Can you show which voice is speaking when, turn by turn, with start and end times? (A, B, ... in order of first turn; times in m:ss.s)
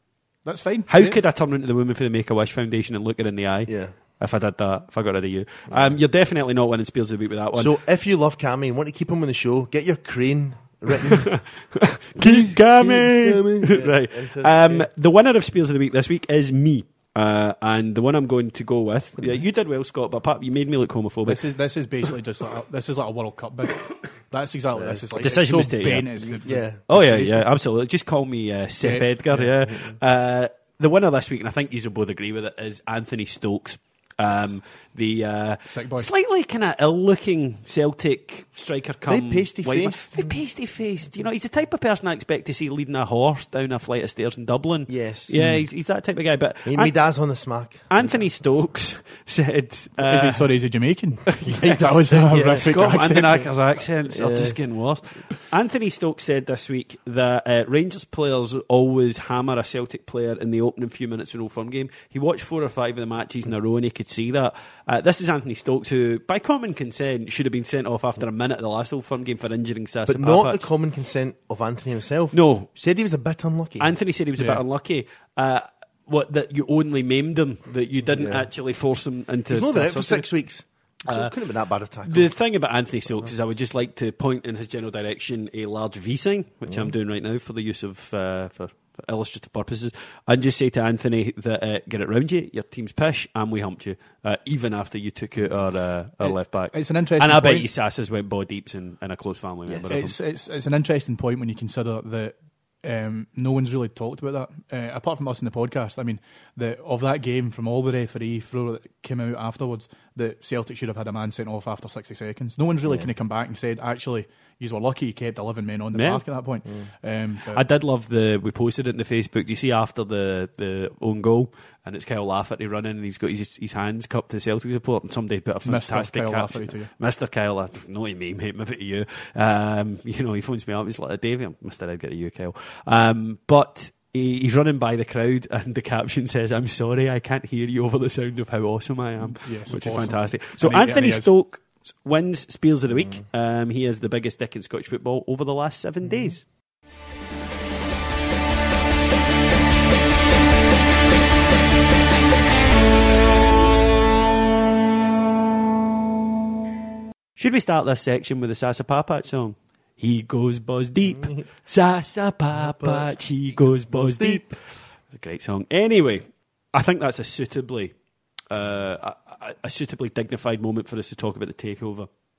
0:00.4-0:01.2 A
0:00.9-0:07.7 B
0:03.7-0:03.9 C
0:05.7-0:06.0 C
0:07.5-0:11.3 C
0:11.0-0:21.4 B
0:12.2-0:14.9 C
0:21.2-0:27.5 A
0:24.8-0:25.1 C
0:25.2-0:26.4 B
0:26.4-0:26.8 C
0:26.9-0:46.9 B
0:28.8-0:29.5 A
0:35.7-0:36.1 A
0:39.1-0:40.3 C
0:44.9-0:45.4 C
0:45.3-0:45.6 A
0:46.7-0:48.3 C
0:47.9-0:50.5 B
0:50.0-0:53.5 A
0:51.3-0:51.8 B
0:51.5-0:52.7 C
0:52.4-1:10.6 B
0:54.1-0:54.6 C
1:10.1-1:13.9 C
1:12.3-1:12.7 B
1:13.8-1:20.3 B
1:14.4-1:14.6 A
1:18.2-1:18.5 C
1:19.5-1:22.3 C
1:21.1-1:21.3 B
1:22.0-1:40.2 B
1:26.7-1:26.9 C
1:36.2-1:37.7 A
1:39.7-1:40.0 C
1:39.9-1:57.6 A
1:55.9-1:56.2 B
1:57.5-2:26.4 B
2:05.6-2:06.9 A
2:19.2-2:21.3 A
2:37.4-2:44.6 B
2:41.2-2:41.4 C
2:42.6-2:43.1 C
2:43.9-2:44.4 C
2:45.1-2:47.9 B
2:48.5-2:52.1 B